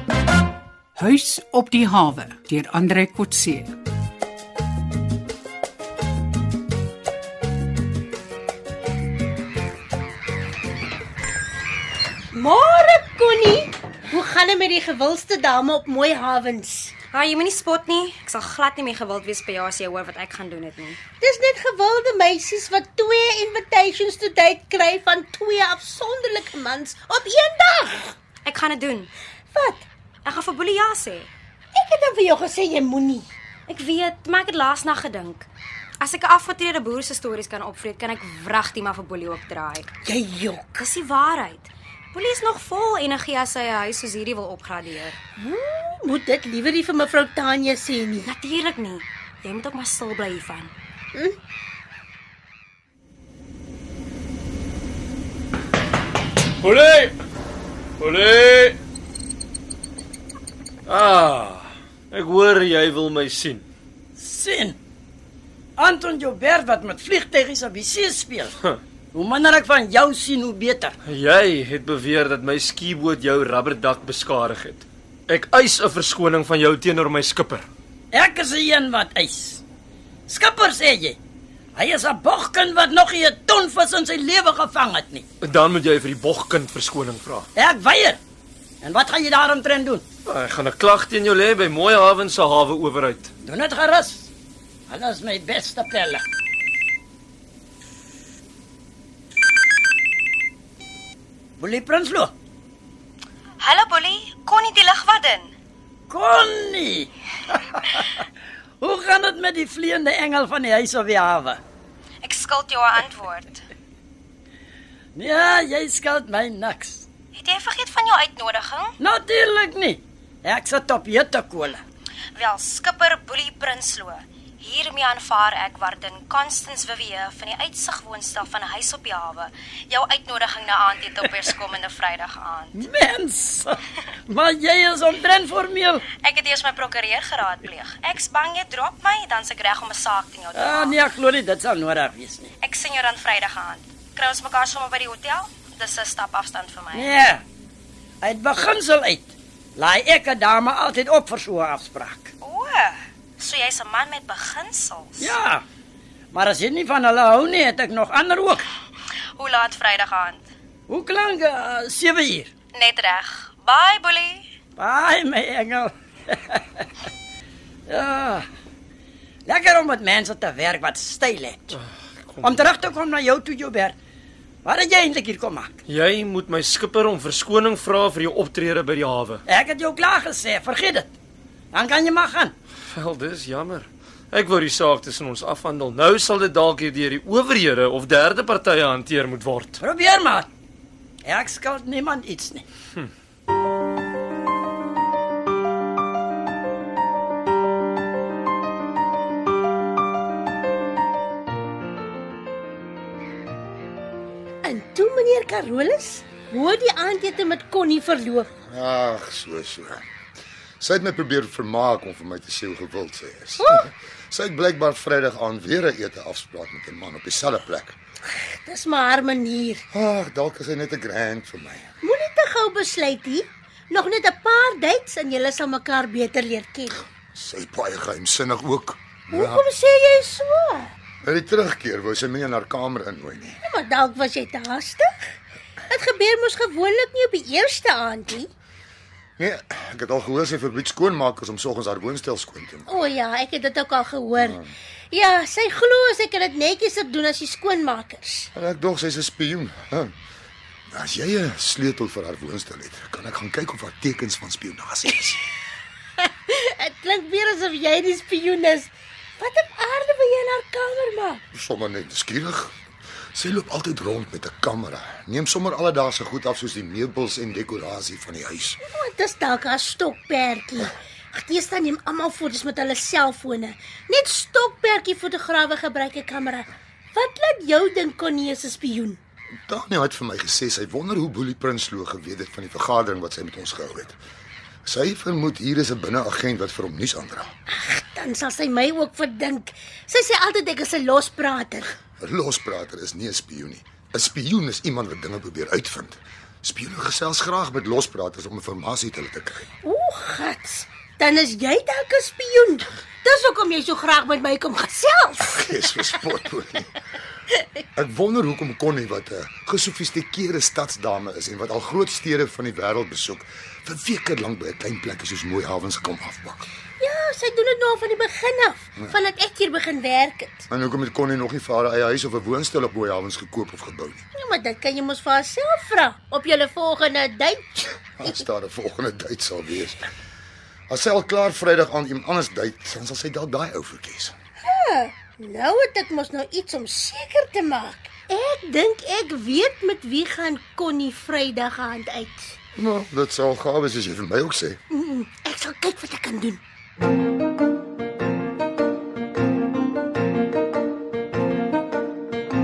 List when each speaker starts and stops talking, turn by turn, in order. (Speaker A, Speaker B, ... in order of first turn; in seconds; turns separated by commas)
Speaker A: 1.0-3.7, Speaker B: 12.3-16.9, Speaker C: 17.1-21.0, Speaker B: 21.2-28.1, Speaker C: 28.4-29.1, Speaker B: 29.5-29.9, Speaker C: 30.2-31.3, Speaker B: 31.7-33.2, Speaker C: 33.7-35.5, Speaker C: 36.0-39.9, Speaker B: 40.0-40.8, Speaker C: 40.8-45.2, Speaker B: 45.4-48.3, Speaker C: 48.2-50.7, Speaker D: 56.6-57.1, Speaker D: 58.0-58.8, Speaker D: 60.9-63.6, Speaker E: 64.2-64.8, Speaker E: 65.8-68.5, Speaker E: 69.1-71.0, Speaker D: 71.0-77.7, Speaker E: 78.1-79.6, Speaker E: 80.3-81.2, Speaker E: 81.8-85.2, Speaker D: 85.4-87.5, Speaker E: 87.5-88.2, Speaker E: 88.8-90.0, Speaker D: 90.2-93.3, Speaker E: 93.4-94.3, Speaker E: 94.9-96.2, Speaker E: 101.6-102.3, Speaker C: 103.6-105.5, Speaker E: 106.1-108.2, Speaker E: 108.8-111.6, Speaker C: 112.2-113.6, Speaker E: 115.1-117.1, Speaker C: 117.3-119.0, Speaker E: 119.0-121.8, Speaker C: 122.3-132.8, Speaker E: 132.7-136.0, Speaker C: 136.2-141.0, Speaker E: 140.5-142.5, Speaker C: 142.6-147.1, Speaker E: 146.9-147.4, Speaker E: 148.2-152.3, Speaker C: 152.4-155.3, Speaker E: 155.2-155.6, Speaker E: 156.3-158.7, Speaker C: 159.4-160.5, Speaker E: 160.9-162.5, Speaker C: 162.7-164.5, Speaker E: 164.8-166.8, Speaker E: 167.9-168.4, Speaker E: 169.4-171.8, Speaker E: 172.4-173.9, Speaker E: 174.6-175.8, Speaker D: 175.9-179.4, Speaker E: 179.5-181.1, Speaker E: 181.7-182.5, Speaker D: 182.9-189.8, Speaker E: 189.8-190.5, Speaker E: 191.2-192.7, Speaker B: 204.6-208.5, Speaker F: 208.6-210.0, Speaker F: 210.8-217.9, Speaker B: 213.6-213.8, Speaker B: 218.3-219.8, Speaker F: 219.9-221.9, Speaker B: 222.0-227.0, Speaker F: 227.3-229.6, Speaker B: 229.3-230.9, Speaker F: 231.2-233.6, Speaker B: 233.6-235.1, Speaker B: 235.9-238.5, Speaker F: 239.4-242.9, Speaker B: 242.9-244.6, Speaker F: 244.4-244.7, Speaker B: 245.1-248.5, Speaker F: 248.5-250.1, Speaker F: 250.9-255.4, Speaker B: 256.2-261.4, Speaker F: 261.5-262.7, Speaker F: 263.3-268.8, Speaker B: 268.8-279.2, Speaker F: 279.7-284.2, Speaker F: 284.8-287.5, Speaker B: 287.7-291.9, Speaker F: 292.2-299.7, Speaker B: 299.8-305.6, Speaker F: 305.5-306.9, Speaker F: 307.9-316.7, Speaker B: 317.0-320.6, Speaker F: 320.7-324.2, Speaker B: 324.3-327.8, Speaker F: 328.2-330.1, Speaker F: 330.9-334.3, Speaker B: 334.6-342.6, Speaker F: 342.8-344.8, Speaker B: 344.9-346.6